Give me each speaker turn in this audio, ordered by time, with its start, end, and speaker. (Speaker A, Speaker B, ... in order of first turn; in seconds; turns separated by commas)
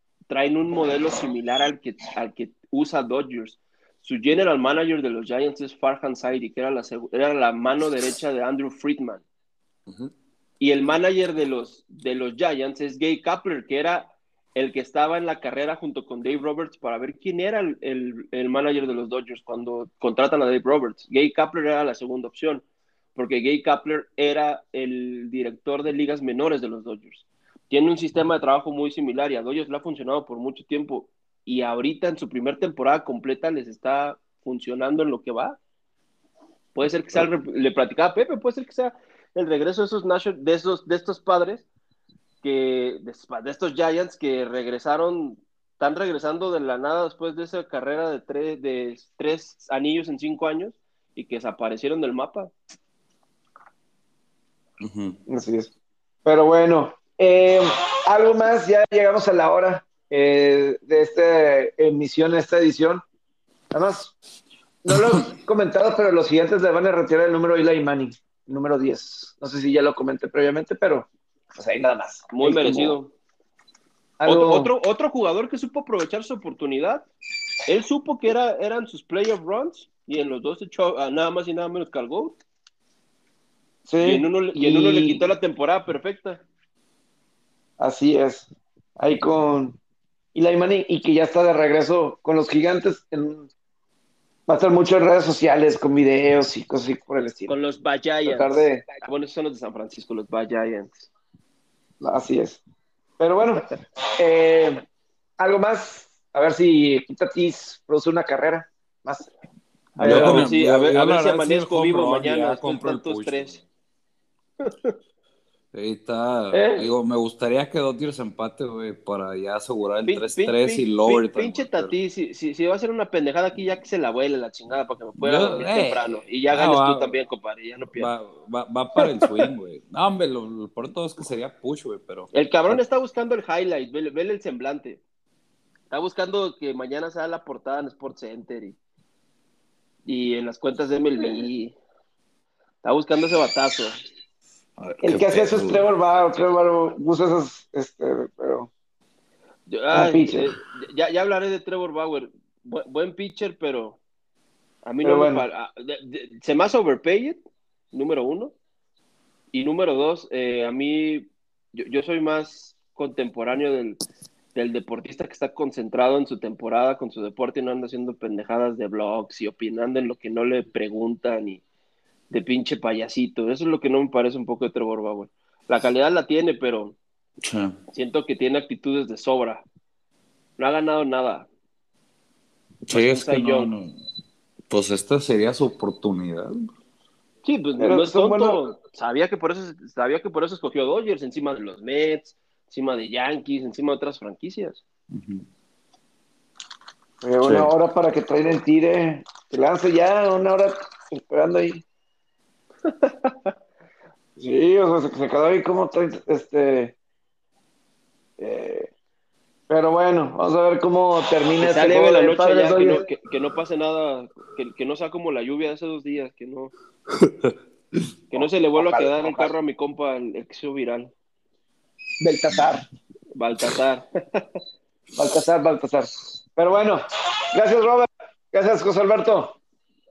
Speaker A: 0.3-9.2, Speaker A: 10.6-35.6, Speaker A: 36.8-41.7, Speaker A: 42.4-52.5, Speaker B: 54.8-55.2, Speaker C: 55.3-55.7, Speaker C: 56.2-63.0, Speaker C: 63.7-64.1, Speaker C: 64.8-73.0, Speaker B: 64.9-65.2, Speaker A: 72.3-73.1, Speaker C: 74.2-74.7, Speaker A: 74.2-77.1, Speaker A: 77.7-82.4, Speaker C: 83.9-85.2, Speaker A: 84.0-86.4, Speaker C: 87.8-88.5, Speaker C: 89.0-89.8, Speaker C: 90.3-93.5, Speaker C: 94.5-97.5, Speaker A: 97.5-101.1, Speaker C: 98.2-98.8, Speaker C: 102.0-102.6, Speaker C: 103.2-104.8, Speaker C: 105.4-109.3, Speaker C: 110.0-110.5, Speaker A: 110.0-113.6, Speaker B: 110.0-113.6, Speaker A: 114.6-115.0, Speaker B: 115.7-122.0, Speaker C: 116.5-116.9, Speaker A: 120.1-128.1, Speaker B: 125.2-127.2, Speaker B: 128.0-132.8, Speaker A: 129.0-129.4, Speaker A: 132.3-135.0, Speaker A: 135.9-138.8, Speaker A: 140.1-141.8, Speaker A: 142.8-144.0, Speaker B: 144.8-145.9, Speaker C: 145.0-148.7, Speaker A: 149.7-154.0, Speaker C: 149.9-150.5, Speaker A: 154.8-158.5, Speaker C: 155.0-155.5, Speaker A: 159.5-164.0, Speaker A: 164.5-171.6, Speaker A: 172.3-177.0, Speaker B: 177.4-177.8, Speaker A: 177.9-179.7, Speaker A: 180.6-181.5, Speaker B: 182.9-184.0, Speaker A: 182.9-183.7, Speaker B: 184.7-186.7, Speaker A: 187.4-194.8, Speaker C: 187.8-188.6, Speaker B: 195.1-195.4, Speaker C: 197.2-201.8, Speaker B: 197.4-197.7, Speaker A: 202.8-203.5, Speaker C: 204.4-206.9, Speaker C: 208.4-208.9, Speaker C: 209.7-213.0, Speaker A: 211.6-216.7, Speaker B: 217.2-217.5, Speaker A: 218.3-221.1, Speaker C: 218.8-219.5, Speaker C: 222.2-222.8, Speaker A: 223.3-224.6, Speaker C: 225.2-227.0, Speaker C: 227.5-229.6